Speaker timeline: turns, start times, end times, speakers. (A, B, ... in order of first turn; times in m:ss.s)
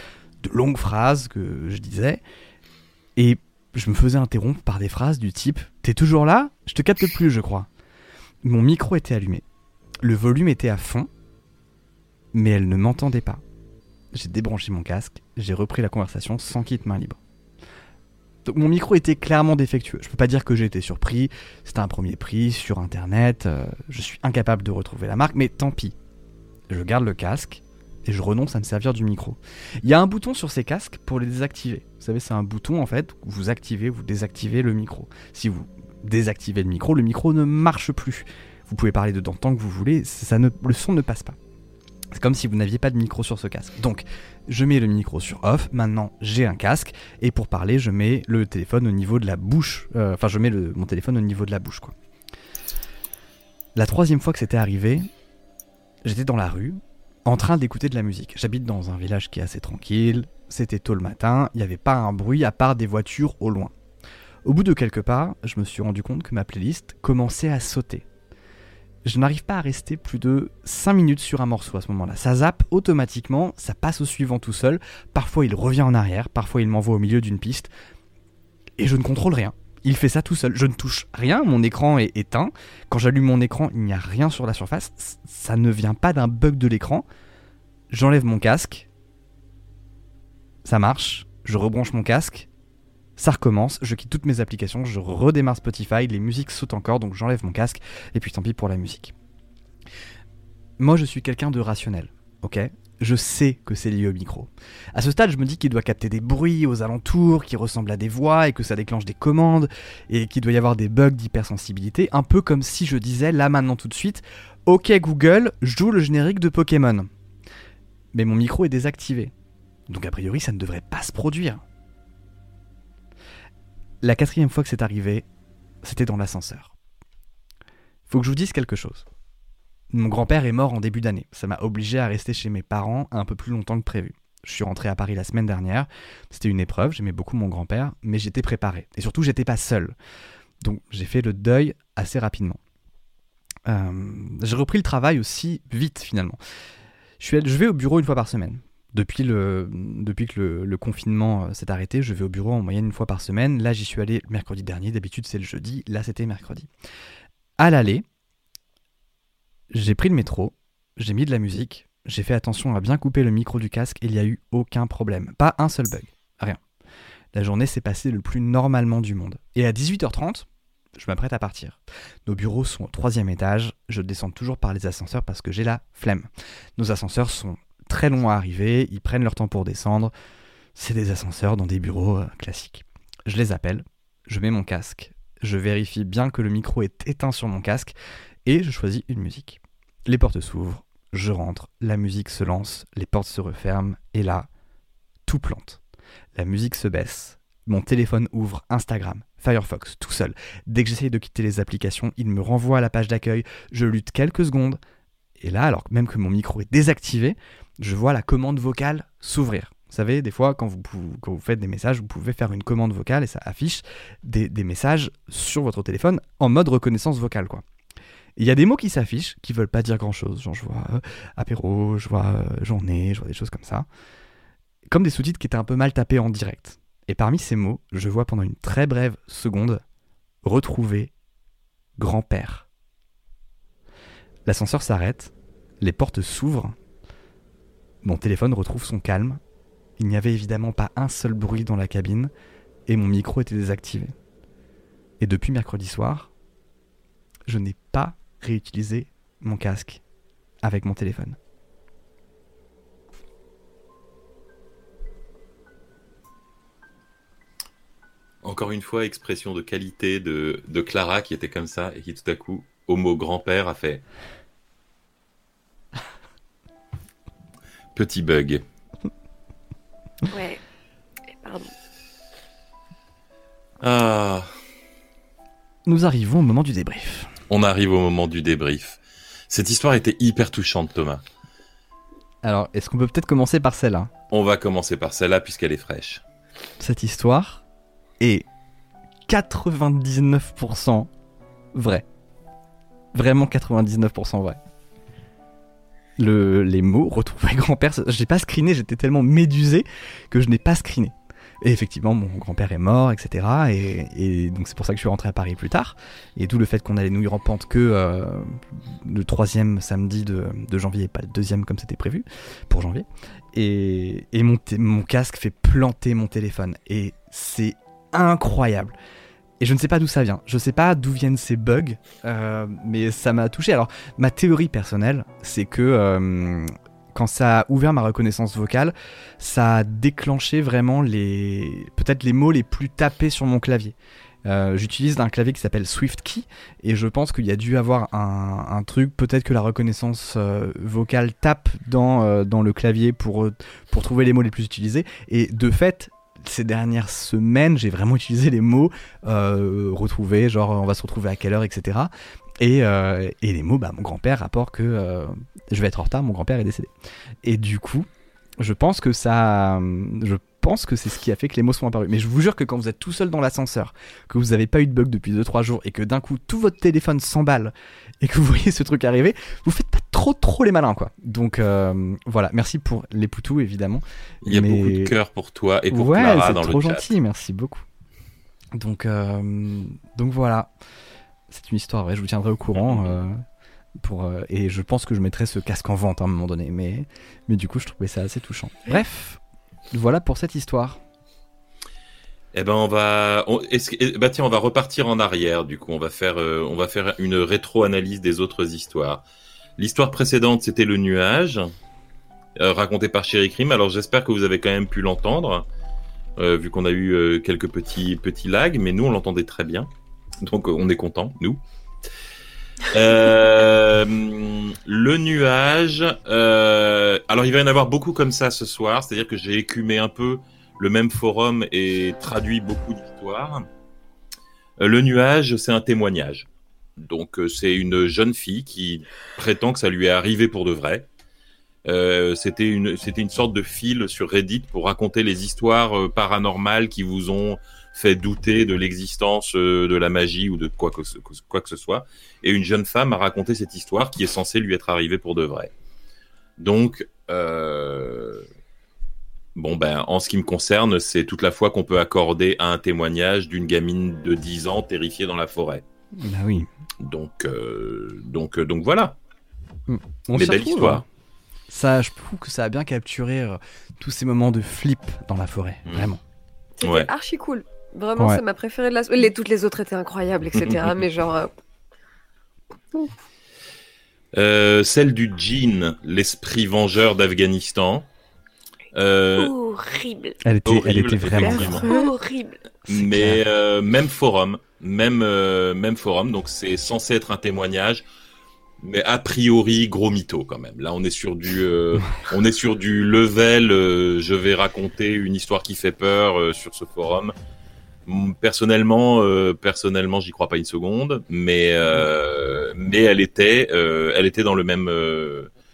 0:00.4-0:02.2 A
0:03.2-0:07.7 A
0:08.4-0:09.4 A
0:10.0-0:11.1 A
0:12.3-0:13.4 A
0:14.1-0:17.2 A
0:18.5-0:26.0 A
0:26.7-0:41.4 A
0:42.2-0:51.9 A
0:53.8-0:55.1 A
0:56.0-1:03.7 A
1:04.4-1:08.0 A
1:09.0-1:17.7 A
1:18.8-1:27.0 A
1:27.9-1:28.9 A
1:30.6-1:32.5 A
1:33.2-1:39.1 A
1:40.8-1:57.1 A
1:58.1-1:59.3 A
1:59.9-2:01.6 A
2:04.0-2:05.2 A
2:05.8-2:06.7 A
2:08.1-2:09.0 A
2:09.9-2:20.0 A
2:20.6-2:22.6 A
2:23.7-2:26.4 A
2:27.2-2:36.7 A
2:37.6-2:38.0 A
2:39.7-2:46.6 A
2:47.3-3:00.1 A
3:00.8-3:07.9 A
3:08.5-3:14.5 A
3:15.3-3:15.8 A
3:16.4-3:24.8 A
3:25.4-3:37.6 A
3:38.4-3:43.9 A
3:44.9-3:49.8 A
3:50.4-3:51.1 A
3:52.0-3:52.7 A
3:54.5-3:56.8 A
3:58.0-3:59.4 A
4:00.0-4:02.3 A
4:02.9-4:04.2 A
4:05.2-4:06.3 A
4:07.5-4:10.0 A
4:10.6-4:11.4 A
4:18.4-4:24.0 B
4:28.0-4:28.6 B
4:30.3-4:30.6 C
4:31.3-4:31.7 C
4:33.8-4:34.5 B
4:35.9-4:37.3 A
4:37.5-4:39.0 B
4:39.5-4:41.2 B
4:42.4-4:44.1 A
4:44.3-4:46.2 B
4:46.8-4:47.6 A
4:48.2-4:48.4 A
4:49.3-4:51.1 A
4:51.8-4:52.0 A
4:53.1-4:54.6 A
4:56.2-5:19.0 A
5:19.6-5:56.9 A
5:57.4-5:58.1 A
5:58.6-6:15.1 A
6:14.4-6:17.1 B
6:15.9-6:17.8 A
6:18.7-6:20.7 A
6:21.5-6:23.4 A
6:22.8-6:23.2 B
6:24.0-6:29.4 A
6:29.9-6:31.0 A
6:32.5-6:39.2 B
6:39.8-6:41.7 B
6:42.6-6:45.6 B
6:46.4-6:49.9 B
6:50.4-6:51.6 B
6:52.9-7:03.6 B
7:04.8-7:11.1 B
7:11.8-7:25.7 B
7:26.6-7:28.4 B
7:29.6-7:35.8 B
7:36.2-7:36.7 A
7:37.0-7:39.2 B
7:39.9-7:41.1 A
7:40.4-7:41.0 B
7:41.7-7:46.2 A
7:46.8-7:51.5 C
7:46.8-7:47.1 B
7:54.3-7:58.1 B
7:58.9-7:59.5 B
7:59.4-8:00.4 D
8:00.4-8:01.9 A
8:00.7-8:01.9 B
8:01.4-8:02.6 D
8:02.9-8:08.0 B
8:02.9-8:03.4 A
8:08.8-8:17.3 B
8:18.1-8:25.5 B